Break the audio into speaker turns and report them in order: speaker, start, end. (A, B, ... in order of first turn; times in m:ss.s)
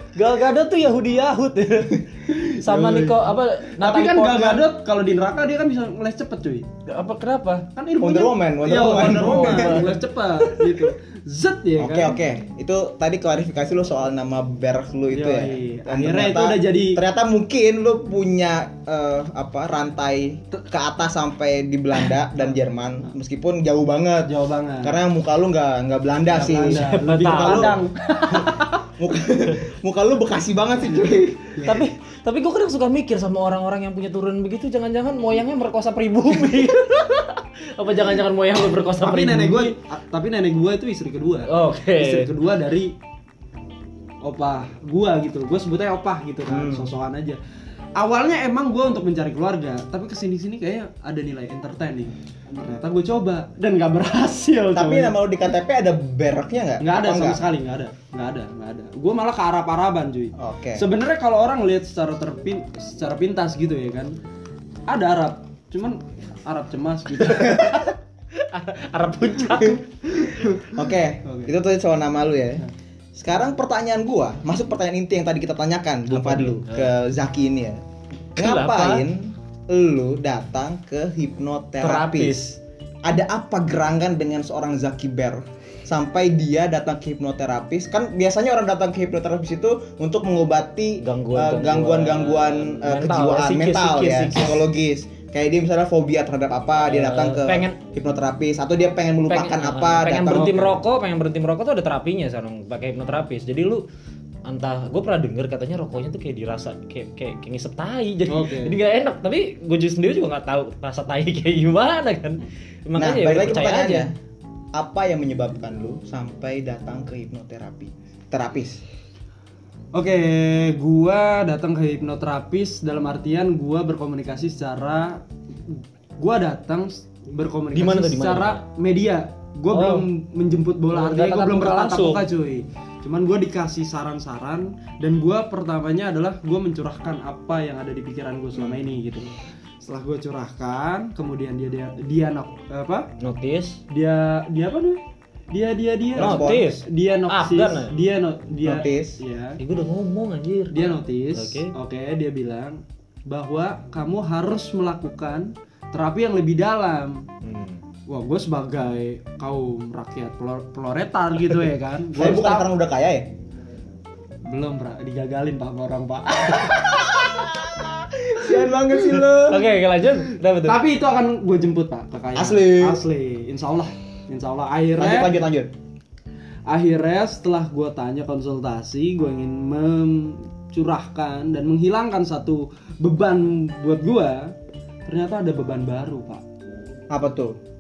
0:00.1-0:04.7 A
0:02.3-0:03.2 B
0:03.8-0:06.7 B
0:06.9-0:07.7 A
0:07.7-0:12.2 B
0:08.0-0:09.9 C
0:08.9-0:10.0 A
0:11.8-0:27.8 C
0:15.1-0:17.0 B
0:24.2-0:25.0 B
0:26.3-0:28.8 B
0:26.6-0:27.8 A
0:29.0-0:31.5 C
0:31.5-0:31.8 B
0:31.6-0:39.7 A
0:39.0-0:42.9 B
0:41.5-0:42.3 A
0:44.2-0:47.4 B
0:46.5-0:46.9 C
0:48.0-0:55.1 B
0:54.7-0:57.4 C
0:56.8-1:04.2 B
1:00.4-1:00.8 C
1:04.9-1:07.9 B
1:07.2-1:09.8 A
1:10.1-1:10.7 B
1:10.7-1:17.8 C
1:11.2-1:11.5 B
1:16.1-1:16.9 A
1:18.4-1:19.0 A
1:18.4-1:22.4 C
1:21.8-1:22.6 A
1:23.0-1:40.8 C
1:31.0-1:34.6 A
1:36.8-1:37.8 A
1:39.3-1:43.8 A
1:44.4-1:54.1 A
1:48.3-1:48.8 B
1:53.0-1:54.1 C
1:54.7-1:58.8 C
1:59.9-2:23.1 B
2:07.7-2:08.6 A
2:09.7-2:10.0 A
2:10.9-2:12.2 A
2:23.2-2:23.8 A
2:23.9-2:29.6 B
2:26.1-2:26.7 C
2:26.2-2:27.9 A
2:28.6-2:29.2 C
2:29.6-2:31.7 A
2:30.7-2:37.3 B
2:37.4-2:37.8 A
2:38.1-2:42.7 B
2:42.1-2:43.3 C
2:44.4-2:47.2 B
2:46.7-2:49.6 C
2:49.1-2:50.8 A
2:50.6-2:55.3 B
2:52.4-2:53.0 C
2:55.0-2:55.7 C
2:56.7-3:04.5 B
3:05.0-3:06.4 B
3:07.1-3:07.6 C